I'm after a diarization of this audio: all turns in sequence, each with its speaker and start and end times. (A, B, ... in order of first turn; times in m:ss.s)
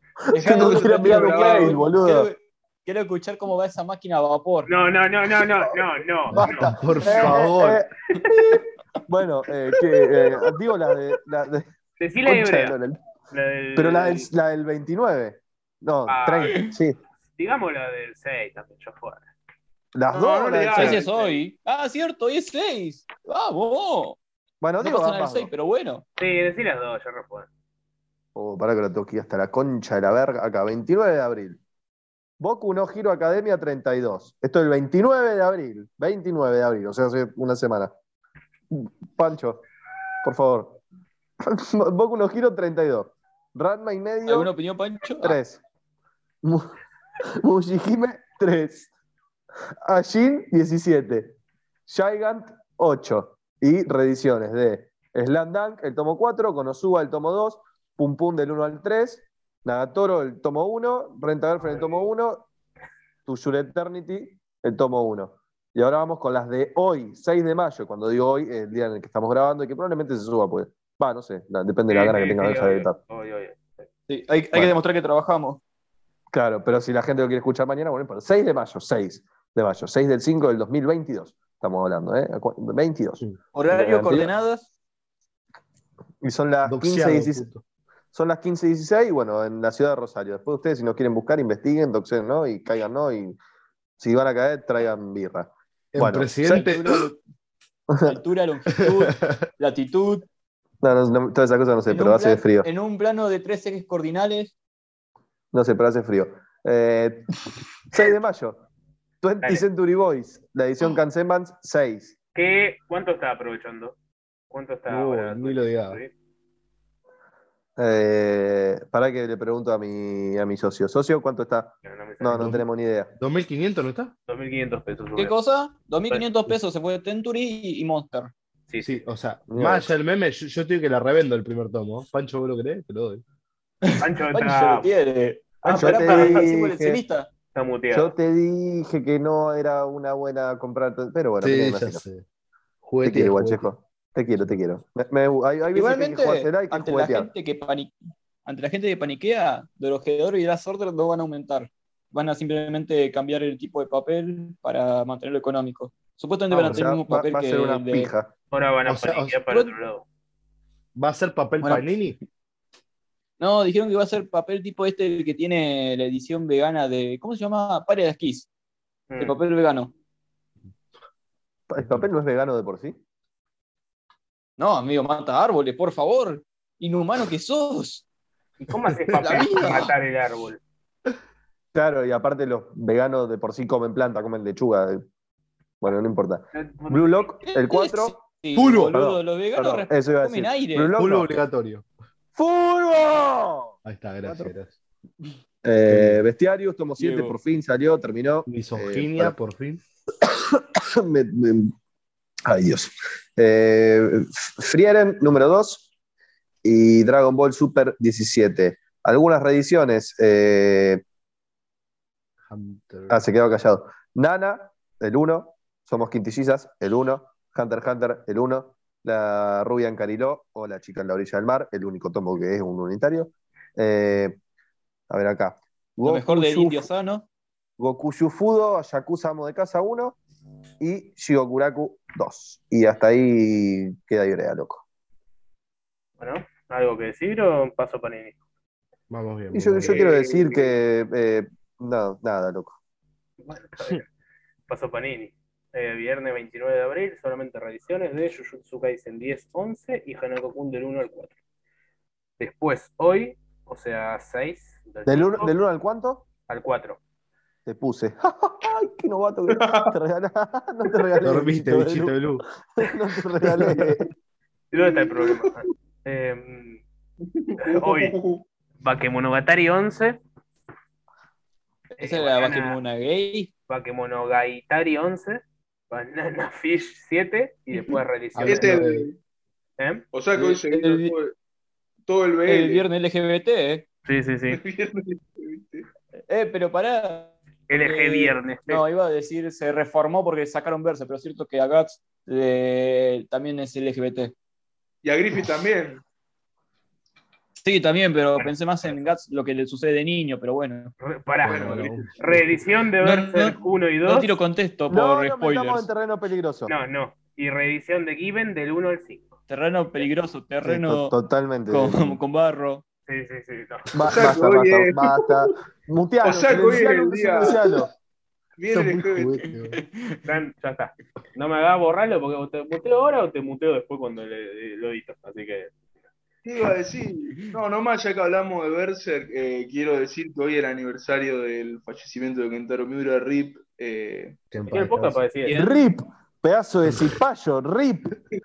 0:00.3-0:02.3 A
0:00.3-0:04.7 B
0:00.4-0:01.8 C
0:04.7-0:06.7 D
0:06.3-0:11.7 A
0:06.3-0:07.8 E
0:12.0-0:12.8 D
0:12.2-0:13.0 A
0:13.3-0:14.3 D
0:13.8-0:17.0 A
0:16.1-0:16.6 D
0:16.4-0:16.8 B
0:17.4-0:19.2 D
0:19.9-0:21.0 A
0:20.1-0:21.4 C
0:20.7-0:24.2 B
0:24.6-0:25.5 A
0:24.8-0:26.0 B
0:26.2-0:27.5 D
0:28.3-0:31.6 A
0:32.4-0:37.9 A
0:38.7-0:39.6 A
0:40.2-0:40.8 A
0:41.4-0:44.5 A
0:44.3-0:45.4 B
0:45.2-0:45.6 A
0:46.4-0:46.7 A
0:47.2-0:48.9 A
0:49.8-0:51.3 A
0:51.9-1:02.5 A
1:01.6-1:02.0 D
1:03.3-1:13.0 A
1:11.9-1:13.9 D
1:14.1-1:15.6 B
1:16.3-1:24.3 A
1:23.5-1:24.7 B
1:26.2-1:27.5 A
1:26.6-1:27.6 E
1:28.1-1:33.4 A
1:34.0-1:36.3 A
1:35.9-1:37.0 E
1:36.4-1:37.2 B
1:37.9-1:38.2 A
1:38.0-1:40.2 B
1:38.8-1:39.4 E
1:40.8-1:42.7 A
1:41.9-1:44.5 B
1:45.5-1:47.3 A
1:47.9-1:48.6 A
1:49.2-1:52.2 A
1:52.3-1:54.0 D
1:54.5-1:56.1 D
1:54.9-1:56.0 E
1:57.8-2:03.1 A
2:01.8-2:02.5 D
2:02.4-2:02.6 E
2:03.2-2:04.1 E
2:04.3-2:05.3 D
2:05.1-2:08.3 B
2:08.8-2:13.2 E
2:09.5-2:09.9 A
2:13.8-2:17.3 B
2:14.0-2:14.9 D
2:15.6-2:17.0 A
2:15.8-2:16.4 D
2:17.5-2:18.1 D
2:17.9-2:22.0 A
2:21.4-2:22.2 E
2:22.8-2:23.7 E
2:23.0-2:27.3 A
2:25.7-2:38.1 B
2:36.5-2:38.3 A
2:36.6-2:36.9 E
2:38.5-2:40.0 D
2:38.8-2:39.4 E
2:41.0-2:42.2 E
2:43.4-2:48.5 B
2:49.1-2:49.4 D
2:49.2-2:49.9 B
2:51.7-2:53.0 A
2:54.6-2:58.0 B
2:58.6-3:00.6 D
2:59.2-2:59.9 B
3:01.7-3:05.0 A
3:05.8-3:08.2 A
3:06.5-3:07.3 D
3:07.4-3:10.9 B
3:08.6-3:08.9 E
3:08.9-3:11.4 A
3:11.0-3:11.8 E
3:12.3-3:14.5 A
3:13.8-3:14.7 E
3:15.6-3:19.4 A
3:15.9-3:16.2 E
3:17.0-3:17.4 B
3:18.4-3:19.8 E
3:20.2-3:21.7 A
3:22.4-3:25.9 A
3:26.6-3:31.0 A
3:32.5-3:33.2 E
3:33.1-3:44.4 A
3:45.1-3:46.9 A
3:46.0-3:47.2 B
3:47.8-3:50.2 A
3:50.8-3:54.8 A
3:56.2-3:58.4 D
3:59.1-4:00.0 E
3:59.5-4:02.8 A
3:59.8-4:00.7 C
4:03.4-4:04.0 D
4:04.7-4:11.3 D
4:12.4-4:15.6 D
4:15.0-4:16.2 A
4:16.5-4:17.0 D
4:17.6-4:22.0 A
4:19.5-4:19.9 C
4:21.2-4:22.4 E
4:21.6-4:22.1 B
4:22.8-4:24.1 A
4:24.7-4:26.8 D
4:24.7-4:25.5 C
4:27.3-4:28.4 C
4:27.6-4:28.2 D
4:28.8-4:30.2 D
4:31.9-4:33.5 B
4:32.0-4:32.8 D
4:33.7-4:38.7 D
4:38.3-4:39.1 E
4:38.4-4:39.2 C
4:39.8-4:40.0 D
4:40.1-4:41.3 C
4:40.3-4:41.1 B
4:42.1-4:42.8 C
4:42.5-4:43.9 B
4:44.0-4:44.6 D
4:44.5-4:45.9 C
4:46.3-4:54.3 B
4:47.7-4:48.8 D
4:55.0-4:56.0 C
4:57.6-5:00.9 B
5:01.0-5:04.3 D
5:01.4-5:02.2 E
5:01.4-5:02.4 C
5:03.0-5:05.9 B
5:04.9-5:06.7 A
5:06.7-5:09.3 D
5:09.5-5:11.2 B
5:10.6-5:12.2 A
5:11.7-5:12.8 B
5:13.1-5:13.9 D
5:13.9-5:17.9 A
5:14.1-5:15.3 C
5:16.2-5:17.6 C
5:18.6-5:19.4 C
5:18.7-5:19.8 E
5:19.7-5:20.2 B
5:20.2-5:25.7 D
5:26.4-5:34.4 C
5:34.5-5:35.2 E
5:34.7-5:35.6 D
5:35.4-5:35.8 B
5:35.5-5:38.1 A